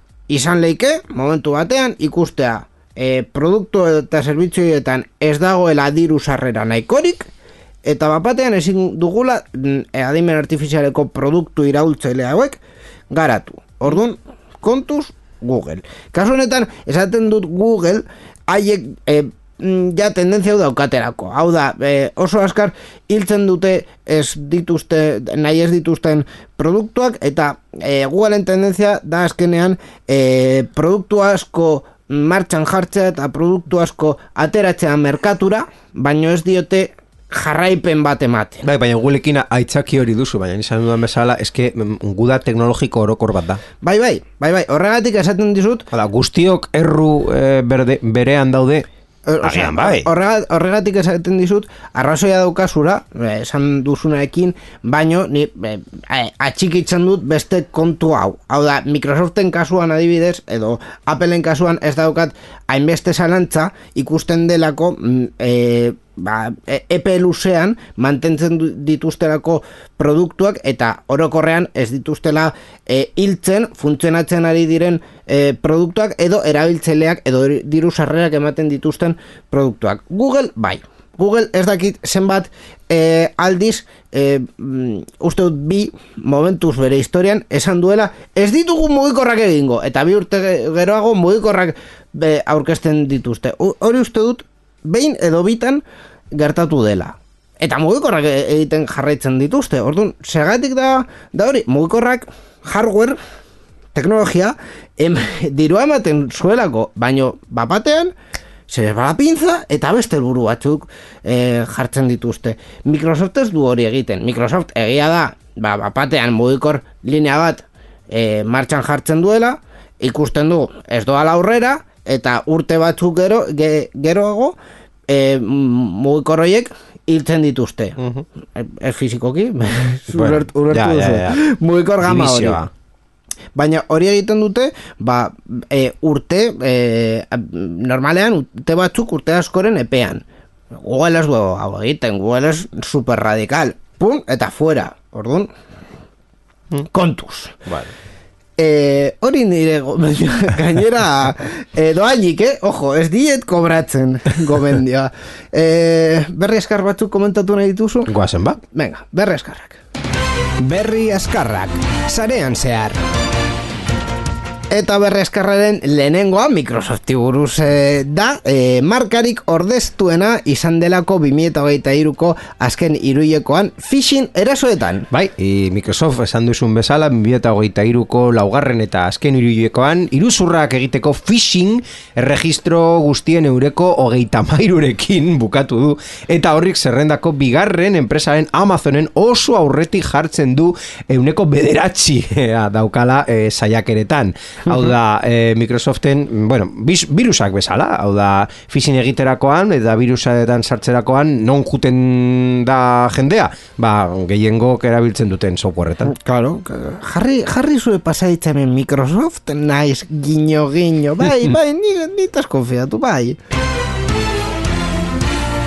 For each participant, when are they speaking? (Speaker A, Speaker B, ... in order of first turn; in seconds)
Speaker A: 0.3-7.3, 7.8-12.6, 13.1-38.6, 43.8-45.9, 49.3-95.8, 96.3-103.2, 103.9-108.1, 108.7-124.5, 125.1-128.0, 128.5-132.6, 133.5-140.2, 140.8-145.5, 146.9-147.6, 148.6-158.1, 158.7-159.8, 160.6-163.0, 164.7-175.1, 206.1-213.4
Speaker B: 38.6-43.6, 45.9-48.9, 49.4-50.1, 128.0-128.2, 130.1-131.4, 132.0-132.7, 147.7-147.9, 158.1-158.6, 175.1-206.1